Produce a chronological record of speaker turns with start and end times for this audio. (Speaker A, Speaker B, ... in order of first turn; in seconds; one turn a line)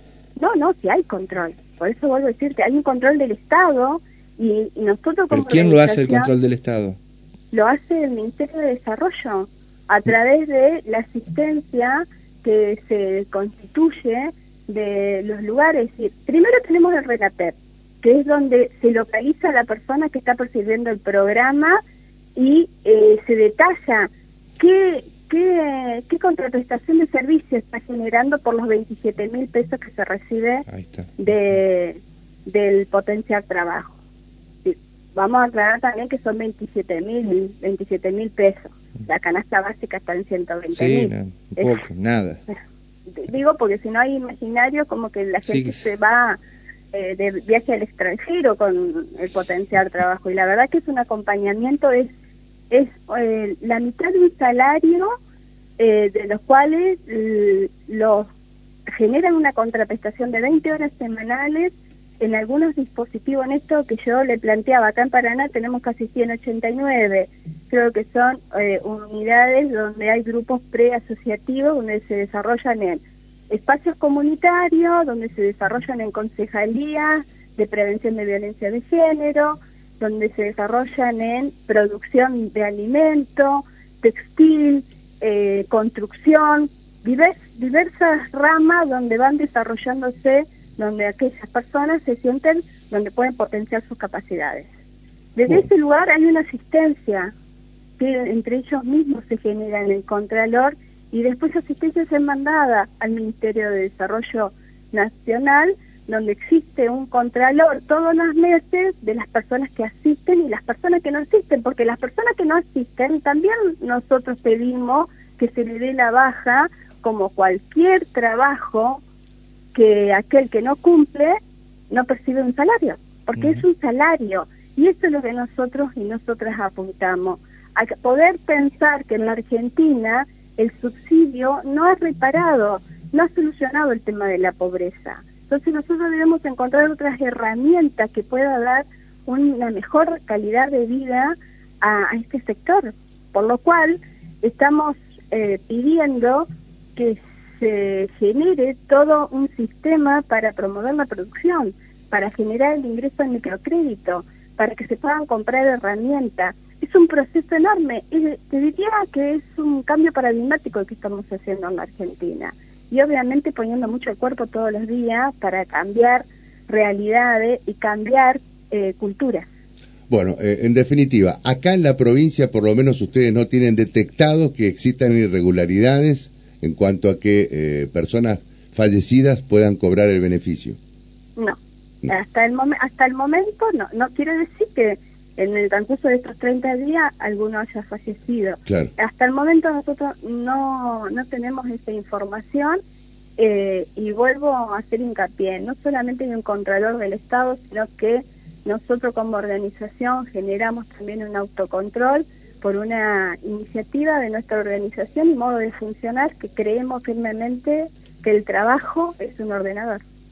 Speaker A: 0.4-6.3
Speaker B: 5.3-7.0
Speaker A: 7.5-21.8
Speaker A: 22.4-30.6
Speaker B: 30.7-31.3
Speaker A: 31.2-33.9
Speaker A: 34.6-41.8
Speaker B: 40.7-42.4
Speaker A: 43.1-46.4
Speaker B: 45.5-45.8
Speaker A: 46.9-52.1
Speaker A: 52.7-55.2
Speaker A: 55.8-58.3
Speaker A: 58.9-94.7
Speaker A: 95.4-97.3
Speaker A: 98.0-119.0
Speaker A: 119.7-121.4
Speaker A: 121.9-169.5
Speaker C: 170.1-180.8
Speaker A: 181.4-192.8
Speaker A: 193.4-210.0